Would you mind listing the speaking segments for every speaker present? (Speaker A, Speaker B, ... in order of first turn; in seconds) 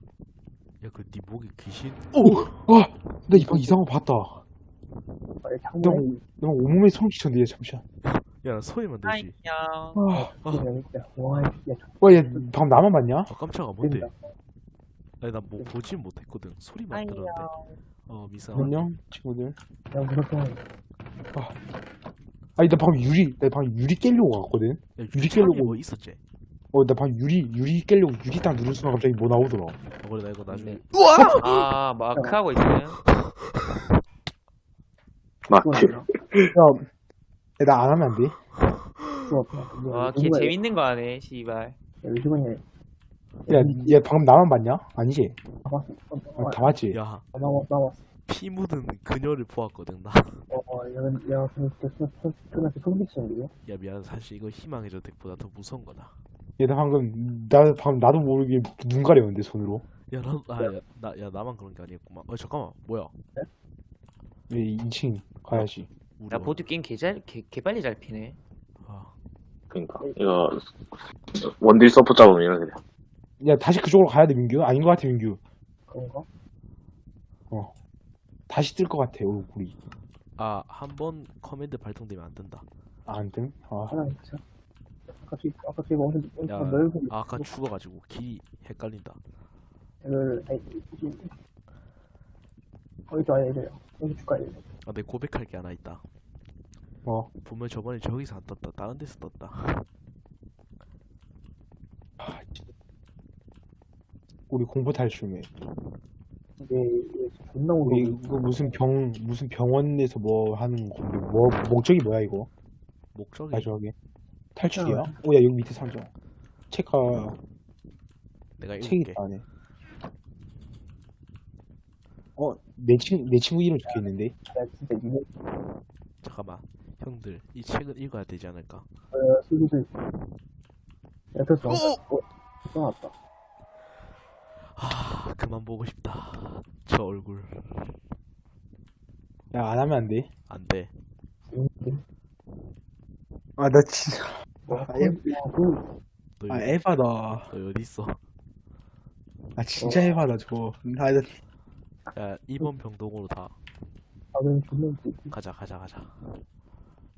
Speaker A: 0.8-2.6, 8.0-9.4, 13.3-14.1, 15.2-17.5, 18.1-18.8, 25.0-26.2, 30.0-31.6, 46.9-47.2, 48.3-50.4, 53.7-56.1, 60.1-63.1, 65.5-66.7, 68.8-69.1, 80.4-82.7, 86.5-89.2, 94.8-96.0, 97.4-99.9, 113.1-113.7, 118.6-119.2, 126.2-128.9, 131.7-132.0, 134.6-138.0, 140.5-140.9, 146.4-146.8, 147.5-148.2, 152.1-153.6, 155.3-156.3
Speaker B: 2.7-4.4, 5.8-7.8, 9.9-10.3, 12.0-13.3, 18.5-19.6, 22.6-25.8, 26.7-29.8, 36.5-36.9, 37.6-38.4, 43.5-45.4, 46.4-47.0, 56.6-59.9, 64.5-65.9, 73.4-75.4, 78.5-79.8, 83.1-84.0, 102.2-102.7, 104.5-105.5, 107.8-112.5, 113.5-113.9, 114.6-116.1, 116.7-117.4, 118.8-119.5, 122.4-124.3, 139.5-140.3, 143.6-145.4, 146.5-147.5, 149.6-151.4
Speaker C: 3.3-3.7, 5.4-6.2, 10.1-12.5, 13.8-14.3, 19.9-20.7, 32.1-32.4, 35.5-36.1, 39.2-40.6, 42.0-42.6, 43.5-44.0, 45.6-46.8, 47.3-48.1, 50.5-53.5, 75.9-76.3, 83.9-84.4, 85.1-87.5, 90.0-91.3, 93.1-94.6, 106.6-108.8, 114.7-115.2, 123.9-125.3, 129.1-129.9, 131.3-133.1, 141.5-142.0, 144.7-145.9, 149.8-150.2, 154.3-155.3
Speaker D: 9.1-10.0, 16.9-17.8, 30.5-33.0, 39.9-41.8, 66.3-68.4
Speaker E: 35.5-36.6, 69.7-72.8